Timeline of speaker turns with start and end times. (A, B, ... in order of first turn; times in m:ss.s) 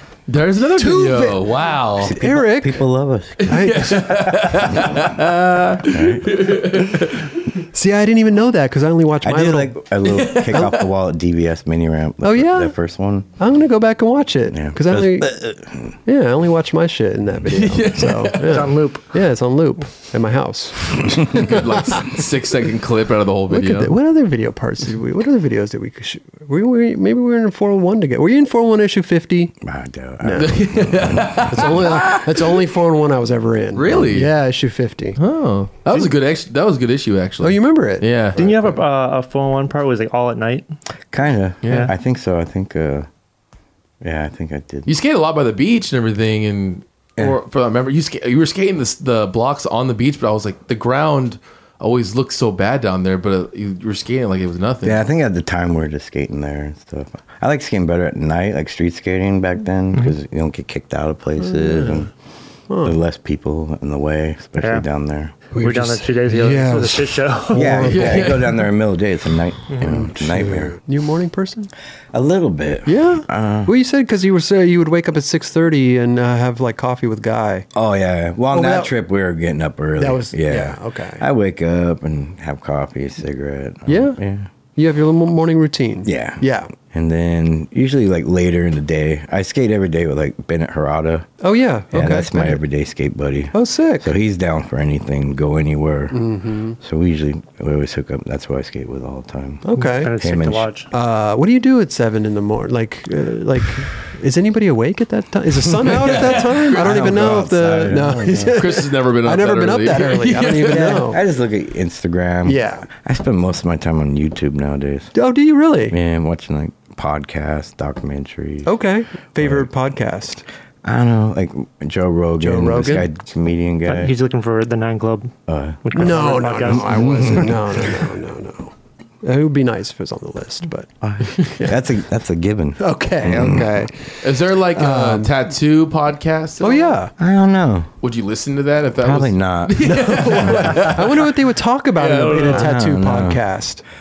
0:00.3-0:02.2 A
0:00.6-0:02.8 B
0:02.0-0:05.2 C
0:03.4-0:04.4 B
0:03.4-0:07.6 A
0:05.8-0:06.8 C
0:07.7-0:09.8 B
0:09.2-0:13.3 C
0:10.0-0:10.8 A
0:10.5-0:10.8 B
0:12.2-0:12.8 B
0:13.4-0:15.4 B
0:14.5-0:16.0 C
0:16.0-0:22.2 B
0:17.5-0:18.6 A
0:18.4-0:19.1 D
0:21.2-0:23.9 A
0:23.5-0:29.6 B
0:29.6-0:31.9 C
0:30.2-0:35.2 B
0:30.4-0:32.7 A
0:33.7-0:34.3 A
0:35.2-0:38.4 A
0:37.4-0:38.8 B
0:38.4-0:40.6 D
0:41.1-0:43.1 C
0:41.6-0:41.9 A
0:41.6-0:41.9 D
0:44.0-0:44.9 C
0:44.9-0:55.1 A
0:54.8-1:02.1 C
1:01.4-1:02.1 B
1:02.7-1:03.0 B
1:02.8-1:05.3 C
1:04.6-1:04.8 D
1:05.5-1:08.5 B
1:05.6-1:07.9 D
1:07.5-1:10.8 C
1:07.9-1:08.7 A
1:09.8-1:11.7 B
1:12.1-1:13.7 C
1:12.9-1:17.7 B
1:17.7-1:24.5 C
1:18.5-1:18.9 B
1:20.0-1:21.2 B
1:23.9-1:24.2 B
1:24.8-1:26.7 B
1:26.0-1:31.3 C
1:31.4-1:32.6 B
1:31.9-1:36.2 C
1:33.5-1:34.1 B
1:36.1-1:36.8 B
1:36.8-1:39.6 C
1:39.6-1:40.1 B
1:39.8-1:40.9 D
1:40.2-1:40.7 C
1:40.9-1:51.2 B
1:45.8-1:48.6 C
1:45.9-1:46.6 A
1:48.6-1:51.0 A
1:50.4-1:55.1 C
1:52.4-1:52.9 B
1:55.1-1:56.0 B
1:55.9-1:58.7 C
1:58.6-2:00.4 B
1:59.4-1:59.7 C
2:00.8-2:04.1 C
2:02.4-2:03.1 B
2:03.9-2:07.6 D
2:05.5-2:07.7 C
2:05.9-2:10.9 B
2:11.0-2:13.8 C
2:11.4-2:11.8 B
2:12.8-2:15.4 B
2:14.2-2:17.0 A
2:16.6-2:17.1 B
2:17.2-2:17.9 C
2:18.0-2:21.4 A
2:19.0-2:20.9 C
2:19.8-2:23.8 B
2:22.0-2:22.6 A
2:22.1-2:22.7 D
2:22.5-2:23.4 C